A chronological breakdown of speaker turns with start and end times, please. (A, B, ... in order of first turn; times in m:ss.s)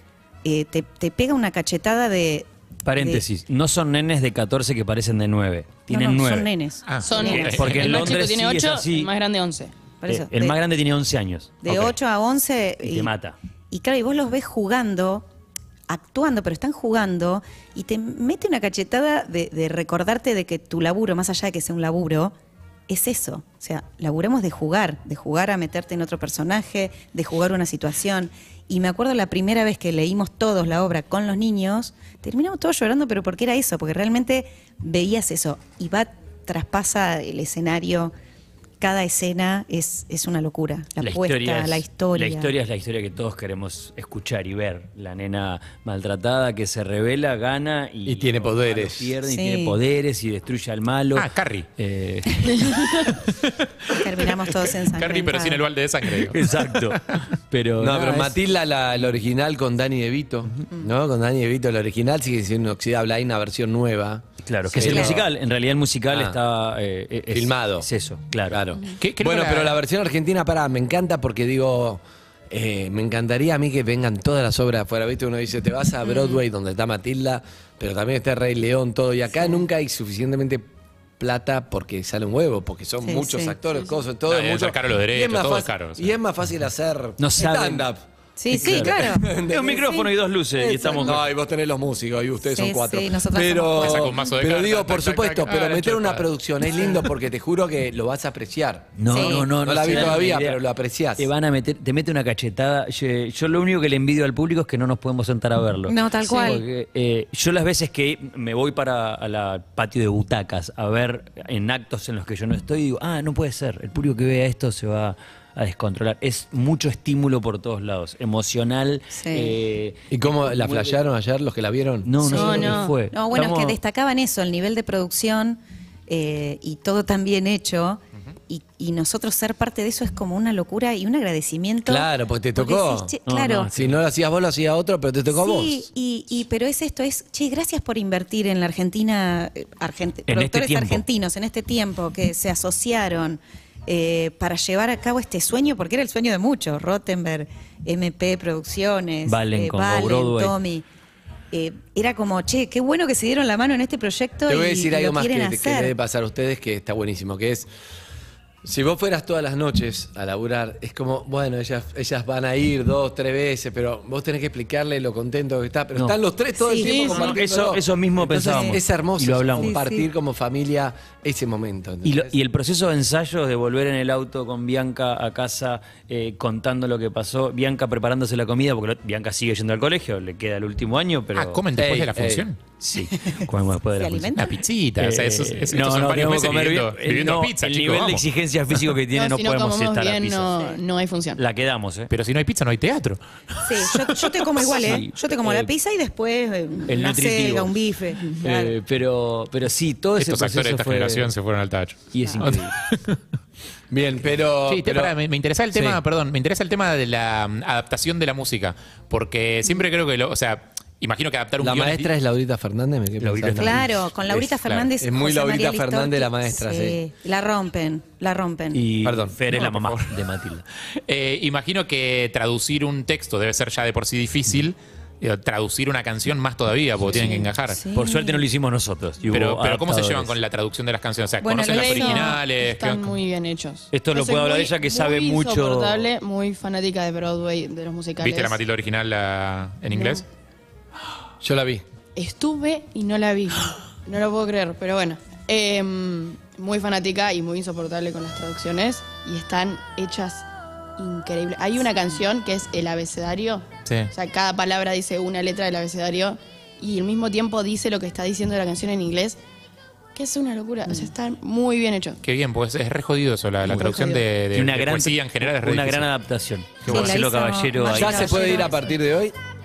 0:00.4-0:03.2 A
0:02.8-0:06.5 B
0:05.9-0:07.9 A
0:06.9-0:07.9 C
0:07.0-0:09.7 D
0:07.3-0:09.1 B
0:10.0-0:10.6 A
0:10.0-0:12.0 B
0:11.6-0:13.1 A
0:12.8-0:13.3 B
0:13.7-0:15.2 A
0:15.9-0:22.3 A
0:22.9-0:38.1 A
0:38.8-0:42.5 A
0:41.0-0:53.0 B
0:48.0-0:49.1 E
0:49.2-0:49.8 A
0:51.1-0:51.7 C
0:53.2-0:57.2 C
0:53.9-0:55.6 A
0:56.2-0:58.4 B
0:57.8-1:05.3 E
1:04.4-1:08.6 B
1:04.8-1:05.2 A
1:06.1-1:06.4 E
1:07.3-1:07.9 E
1:08.5-1:20.7 E
1:08.9-1:09.8 C
1:16.0-1:16.4 A
1:21.2-1:41.3 E
1:23.0-1:23.6 A
1:24.3-1:26.1 C
1:27.2-1:27.9 B
1:28.4-1:29.2 A
1:28.5-1:31.3 B
1:32.4-1:34.1 A
1:33.7-1:36.3 C
1:39.0-1:40.6 B
1:39.1-1:39.5 A
1:41.2-2:01.0 B
1:45.9-1:46.6 A
1:59.1-1:59.5 A
2:00.1-2:02.3 E
2:02.0-2:03.8 B
2:02.2-2:13.7 A
2:02.3-2:03.0 D
2:11.8-2:13.1 E
2:13.3-2:14.0 B
2:13.7-2:15.9 E
2:15.3-2:30.8 A
2:20.3-2:21.0 B
2:29.2-2:30.6 B
2:31.5-2:35.9 A
2:34.4-2:37.7 E
2:38.6-2:52.4 E
2:46.6-2:46.9 A
2:46.8-2:47.3 D
2:47.0-2:49.8 B
2:48.3-2:48.8 A
2:49.6-2:50.1 A
2:52.0-3:01.6 B
3:01.4-3:02.6 C
3:01.7-3:02.5 E
3:02.8-3:04.4 B
3:04.0-3:04.6 A
3:04.3-3:08.2 C
3:05.0-3:10.5 B
3:09.1-3:11.4 D
3:11.4-3:12.1 B
3:12.1-3:14.6 C
3:13.6-3:18.8 A
3:14.6-3:15.7 B
3:16.9-3:21.3 B
3:20.2-3:23.2 C
3:22.1-3:22.7 B
3:23.9-3:25.1 E
3:24.7-3:32.1 C
3:25.7-3:26.0 E
3:31.6-3:37.0 E
3:33.2-3:34.0 B
3:33.5-3:38.8 A
3:38.7-3:40.6 B
3:39.0-3:39.4 E
3:39.5-3:40.1 C
3:41.0-3:47.8 C
3:47.0-3:48.4 A
3:47.9-3:50.3 B
3:49.3-3:53.1 C
3:51.4-3:52.4 A
3:51.4-3:58.6 D
3:53.9-3:56.1 B
3:58.2-4:00.2 C
3:59.9-4:00.2 D
4:01.4-4:01.8 E
4:02.2-4:19.4 D
4:13.8-4:14.1 C
4:20.1-4:22.2 D
4:22.2-4:26.1 C
4:23.7-4:24.0 D
4:24.5-4:28.7 B
4:26.8-4:27.2 C
4:26.8-4:28.9 A
4:27.8-4:29.4 E